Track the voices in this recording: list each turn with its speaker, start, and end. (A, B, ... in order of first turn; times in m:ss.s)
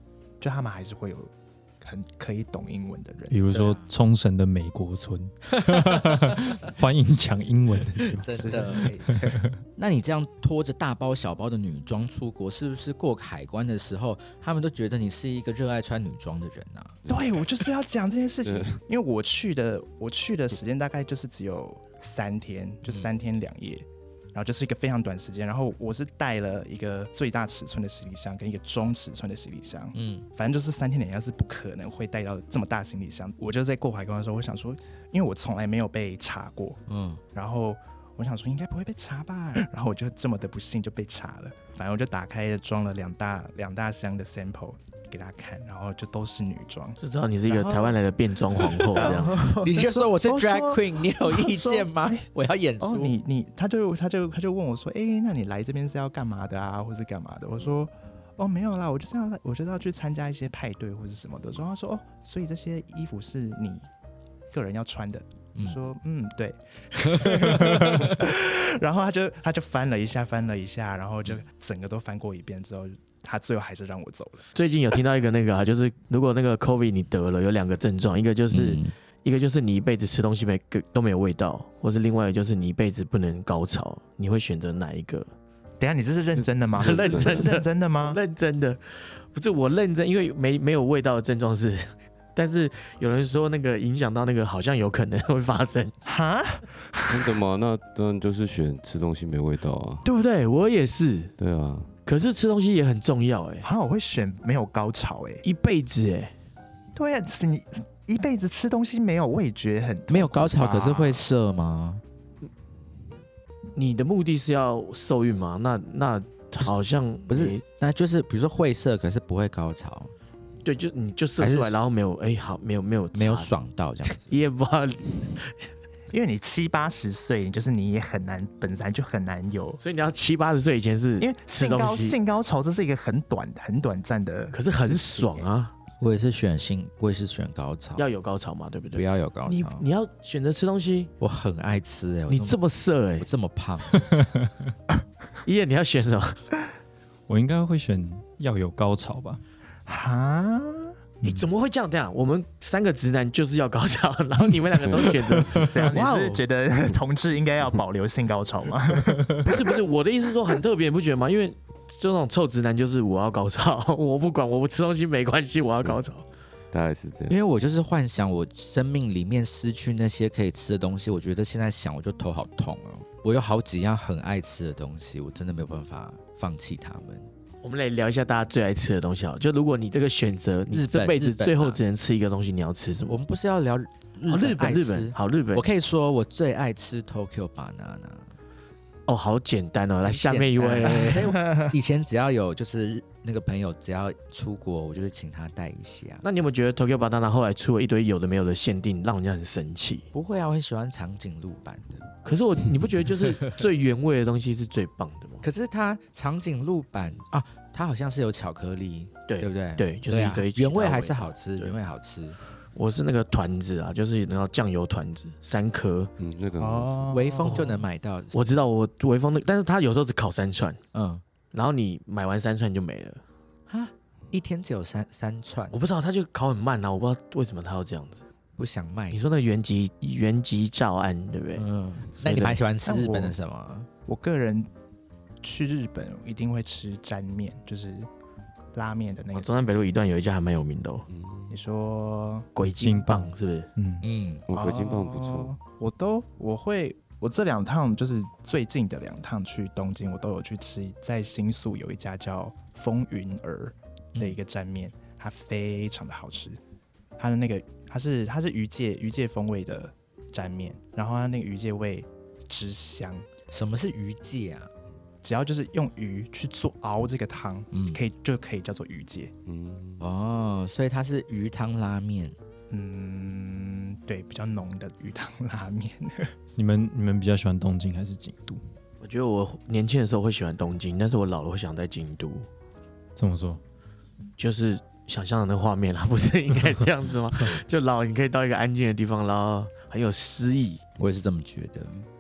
0:00.4-0:03.3 A
0:03.3-0:08.7 B
0:03.5-0:03.9 C
0:05.7-0:06.4 C
0:08.0-0:08.9 C
0:08.3-0:09.4 A
0:09.8-0:17.0 C
0:17.0-0:17.4 D
0:17.1-0:36.8 A
0:18.4-0:18.8 D
0:29.9-0:30.2 C
0:36.9-0:37.2 C
0:37.3-0:47.0 A
0:47.0-0:49.4 E
0:47.5-0:47.9 A
0:48.7-0:52.2 A
0:49.0-0:53.2 C
0:52.8-1:03.9 A
1:04.5-1:14.5 A
1:05.5-1:05.8 C
1:07.2-1:08.1 C
1:14.5-1:25.3 E
1:18.5-1:18.9 C
1:25.8-1:28.2 A
1:26.8-1:35.9 E
1:26.8-1:27.5 D
1:36.0-1:37.3 A
1:37.1-1:40.0 D
1:40.0-1:41.3 E
1:41.4-1:41.9 D
1:42.0-1:43.7 E
1:43.6-1:45.4 A
1:45.4-1:46.3 E
1:47.0-1:51.2 A
1:50.1-1:52.0 C
1:53.7-1:57.6 E
1:57.3-2:00.1 C
2:00.6-2:03.5 E
2:01.4-2:01.7 C
2:03.1-2:04.3 C
2:04.1-2:05.7 E
2:06.1-2:09.8 A
2:09.8-2:12.2 E
2:11.2-2:15.5 A
2:14.5-2:15.7 E
2:16.0-2:18.0 C
2:18.0-2:21.1 E
2:18.9-2:19.8 C
2:21.2-2:22.6 C
2:22.3-2:23.3 E
2:23.2-2:23.9 C
2:23.9-2:24.5 B
2:25.4-2:26.4 E
2:27.3-2:29.4 B
2:29.9-2:30.9 A
2:31.2-2:36.4 E
2:34.8-2:35.2 D
2:35.4-2:35.7 B
2:35.6-2:39.7 A
2:39.4-2:46.2 E
2:46.7-2:47.4 D
2:47.3-2:57.3 C
2:57.6-3:03.2 E
3:00.7-3:01.8 C
3:03.1-3:08.3 C
3:04.3-3:05.6 E
3:09.1-3:11.4 E
3:10.0-3:16.2 C
3:11.0-3:11.7 A
3:16.2-3:20.0 E
3:20.1-3:22.1 C
3:22.2-3:25.4 E
3:25.4-3:32.4 C
3:29.3-3:31.7 E
3:32.7-3:36.1 E
3:36.2-3:37.2 D
3:36.6-3:37.8 A
3:37.1-3:38.5 C
3:37.4-3:37.7 E
3:38.3-3:40.8 E
3:40.9-3:41.2 C
3:41.5-3:43.2 E
3:43.7-3:45.8 C
3:45.7-3:48.2 E
3:48.6-3:49.2 C
3:49.1-3:51.6 E
3:51.6-3:53.9 C
3:52.2-3:52.6 E
3:52.8-3:53.3 A
3:54.1-3:54.7 A
3:55.4-3:58.1 A
3:58.7-3:59.6 A
3:59.3-4:01.0 E
4:01.1-4:01.6 D
4:01.5-4:02.5 A
4:02.5-4:03.7 E
4:02.6-4:04.0 B
4:04.0-4:04.4 C
4:04.5-4:05.5 D
4:04.5-4:16.6 A
4:17.2-4:23.2 A
4:23.5-4:24.7 C
4:25.2-4:29.3 A
4:27.7-4:28.0 C
4:29.4-4:30.0 D
4:30.0-4:32.4 C
4:32.7-4:36.3 A
4:36.6-4:38.6 B
4:39.0-4:42.5 E
4:43.2-4:43.6 B
4:44.4-4:50.8 E
4:51.0-4:52.1 C